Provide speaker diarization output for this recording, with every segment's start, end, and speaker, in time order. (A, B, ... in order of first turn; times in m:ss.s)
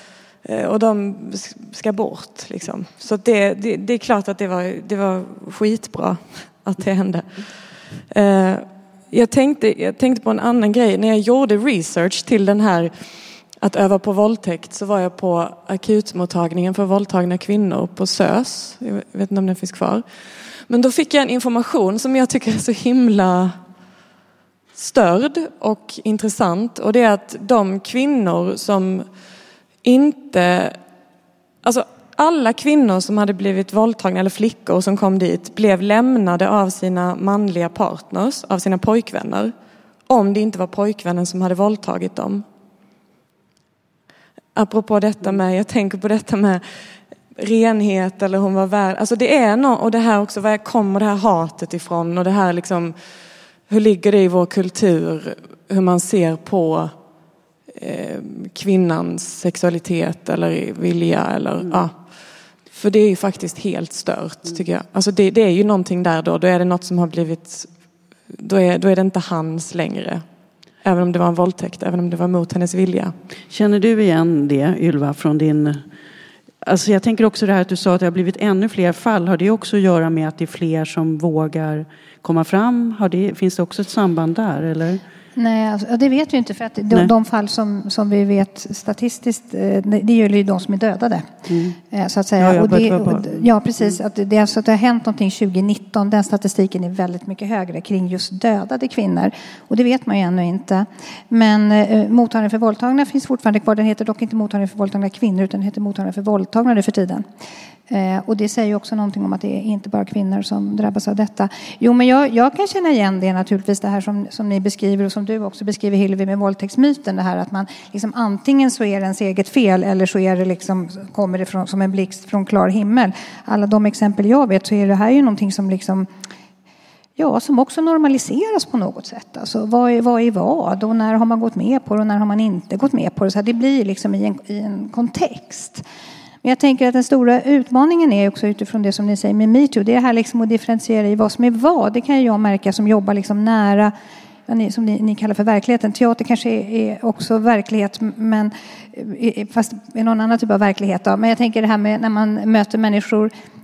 0:00.4-0:07.4 A
0:08.1-0:13.0 A
0:13.6-0:20.1 A
0:20.7-0:23.6 A
0:24.8-0:29.1 A
0:29.8-0:30.8 A
0:31.6-0:39.5 A
0:40.1-0:42.4 A
0:44.6-0:46.6 A
0:47.4-0:53.0 A
0:53.7-0:56.9 A
0:57.7-1:02.0 A
1:02.7-1:07.7 A
1:08.3-1:10.2 A
1:10.8-1:13.1 A
1:13.5-1:15.8 B
1:16.6-1:25.0 B
1:25.4-1:31.3 C
1:31.5-1:31.8 B
1:31.9-1:47.2 C
1:32.4-1:33.9 B
1:47.9-2:06.1 C
2:07.2-2:15.8 C
2:16.4-2:23.9 C
2:24.5-2:33.3 C